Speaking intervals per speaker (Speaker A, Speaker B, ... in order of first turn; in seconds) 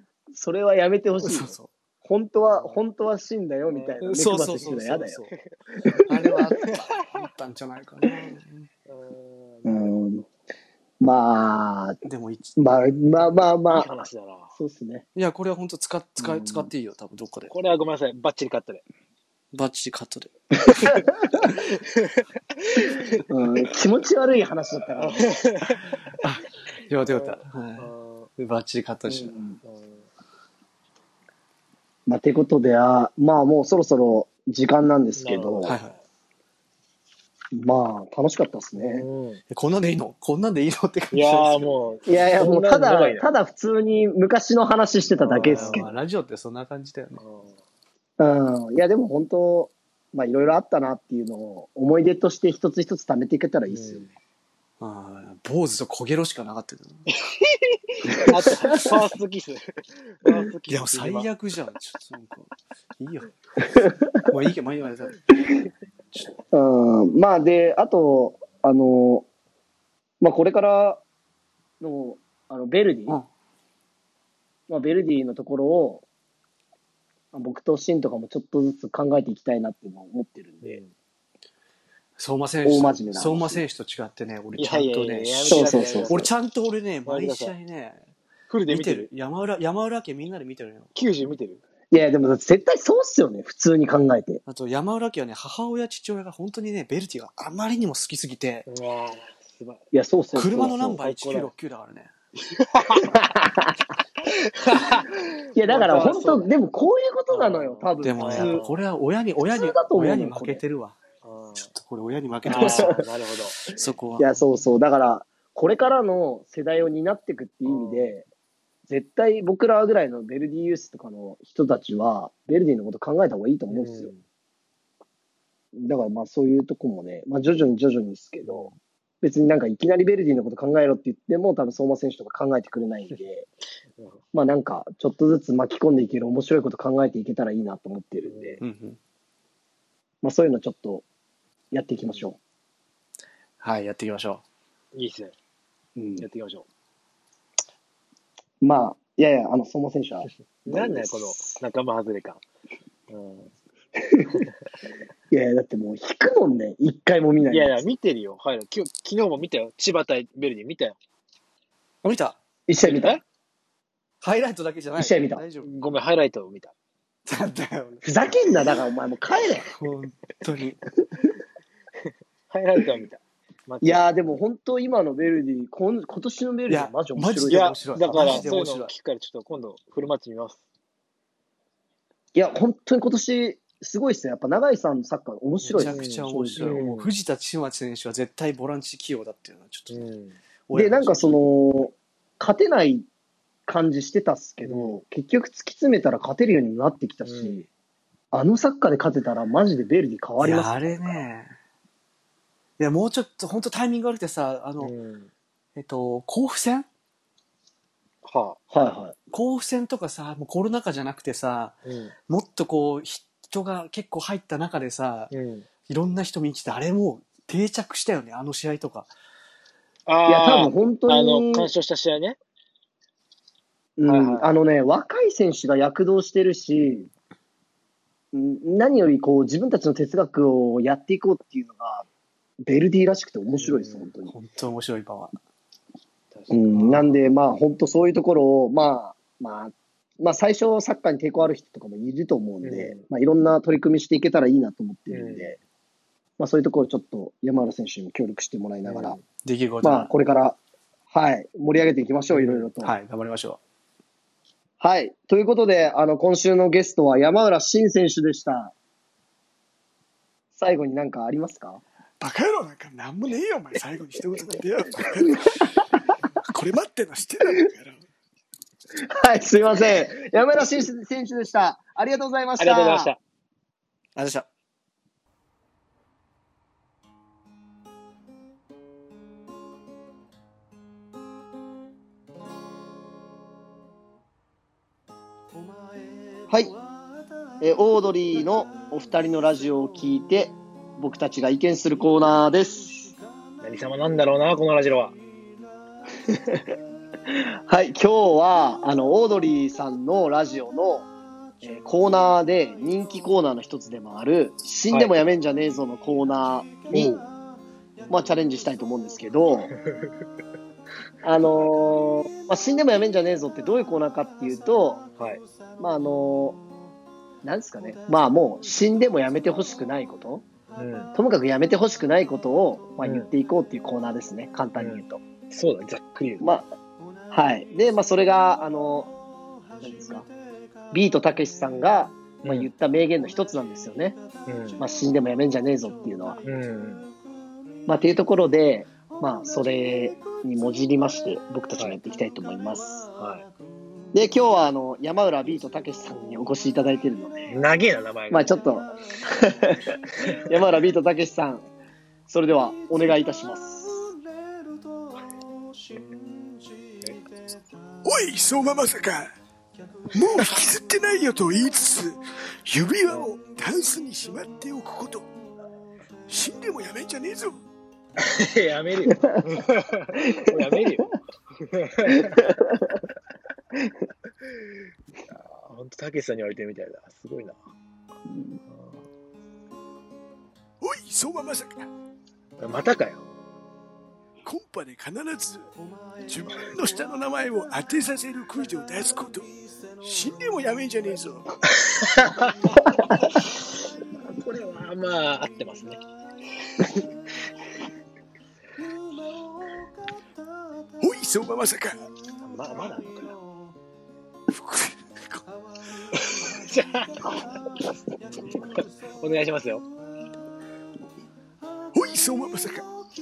Speaker A: 0.3-5.2, 5.8-6.3, 9.6-10.3, 11.0-12.0, 12.6-13.9, 14.5-15.0, 16.2-16.7, 20.7-21.5, 23.3-25.3, 29.1-29.6, 32.1-35.7, 37.5-39.0, 42.1-45.9, 48.2-54.0, 63.7-64.2, 66.5-69.2, 70.2-71.0, 71.8-73.2, 74.7-76.0, 77.3-80.8, 82.6-83.6, 85.5-86.2, 91.9-94.4, 99.9-101.0, 103.0-103.8, 105.5-108.6, 109.5-110.6, 112.4-113.0, 114.2-118.2, 118.9-124.1, 125.7-128.7, 129.2-133.5, 134.3-138.6, 140.2-141.0, 141.7-142.4, 145.9-146.2, 148.6-151.5, 154.0-154.3, 155.3-157.8, 162.7-163.2, 165.0-165.4, 168.0-169.7, 173.8-178.5, 182.3-186.8, 190.7-193.1, 193.7-197.6, 198.3-201.2, 208.7-209.1, 220.3-221.7, 224.0-227.1, 228.3-232.1, 232.6-234.3, 236.5-245.6, 246.4-249.2, 249.8-250.6, 251.1-252.9, 254.8-258.7, 260.5-261.8, 265.4-265.8, 268.9-273.1, 286.5-286.7, 287.6-293.1, 296.3-296.6, 297.3-301.1, 301.6-307.2, 308.1-309.7, 311.2-315.0, 315.8-316.6, 317.4-320.4, 321.1-325.2, 326.4-326.7, 327.3-329.1, 329.8-330.3, 330.9-334.2, 334.8-336.4, 337.9-343.1, 344.1-347.5, 348.3-351.6, 352.3-354.1, 369.2-369.4, 370.4-370.8, 372.1-373.0, 392.9-393.2
Speaker B: 1.2-1.7, 4.0-5.3, 6.0-8.7, 12.0-12.6, 15.1-17.5, 19.5-21.6, 26.2-29.3, 35.6-35.9, 39.5-41.8, 45.5-47.2, 54.8-57.0, 60.7-63.3, 64.2-65.4, 82.2-88.0, 88.7-90.9, 94.5-98.7, 100.3-102.1, 108.0-111.0, 111.5-113.0, 113.7-114.3, 138.6-139.0, 143.6-144.4, 162.0-162.4, 164.2-165.7, 167.2-168.5, 169.7-170.8, 176.7-178.9, 185.8-190.1, 190.7-191.4, 200.4-201.5, 202.8-204.9, 205.8-206.9, 209.3-215.3, 215.9-219.1, 234.2-235.3, 249.4-250.1, 252.8-253.6, 263.3-264.6, 274.1-274.5
Speaker C: 2.4-2.8, 3.7-4.0, 6.6-7.2, 8.9-9.9, 13.7-14.5, 17.5-18.8, 21.4-23.2, 25.0-26.0, 27.0-28.3, 29.6-30.1, 35.1-36.0, 38.7-39.4, 41.1-43.2, 45.2-45.9, 47.2-47.6, 53.7-54.1, 57.3-61.3, 80.6-80.9, 84.5-86.3, 87.0-87.5, 88.5-89.1, 90.9-91.6, 98.7-99.8, 100.5-101.5, 102.7-103.1, 104.4-106.5, 107.3-108.8, 111.2-111.7, 112.5-113.6, 117.6-118.1, 123.7-124.2, 128.4-128.8, 138.2-138.6, 144.9-145.3, 146.2-146.7, 150.6-152.4, 153.1-153.5, 157.5-161.0, 162.8-163.2, 165.6-166.7, 172.5-174.1, 177.5-180.6, 185.6-187.1, 189.9-190.4, 194.6-195.0, 197.2-197.6, 204.8-205.3, 208.2-208.6, 211.8-212.1, 215.3-215.7, 220.1-222.4, 224.1-224.5, 233.6-234.1, 236.3-237.3, 242.6-243.1, 245.1-245.6, 248.8-249.2, 252.3-252.7, 272.6-273.2, 293.6-295.2, 304.9-305.1, 306.9-307.2, 309.9-310.1, 315.2-315.4, 320.8-321.1, 323.0-323.3, 324.8-326.4, 332.4-332.7, 334.5-334.8, 336.4-337.1, 343.1-343.5, 347.5-348.5, 368.2-372.4, 375.3-377.6, 378.7-379.0, 382.6-383.2, 391.7-392.8, 394.3-396.0, 402.4-403.4, 406.1-407.5, 408.5-409.9
Speaker D: 262.2-265.6, 266.4-268.0, 358.0-359.3, 360.1-365.2, 366.3-367.6, 380.8-381.9, 384.4-385.7, 386.2-391.6, 401.0-402.0, 404.5-405.4, 411.9-412.9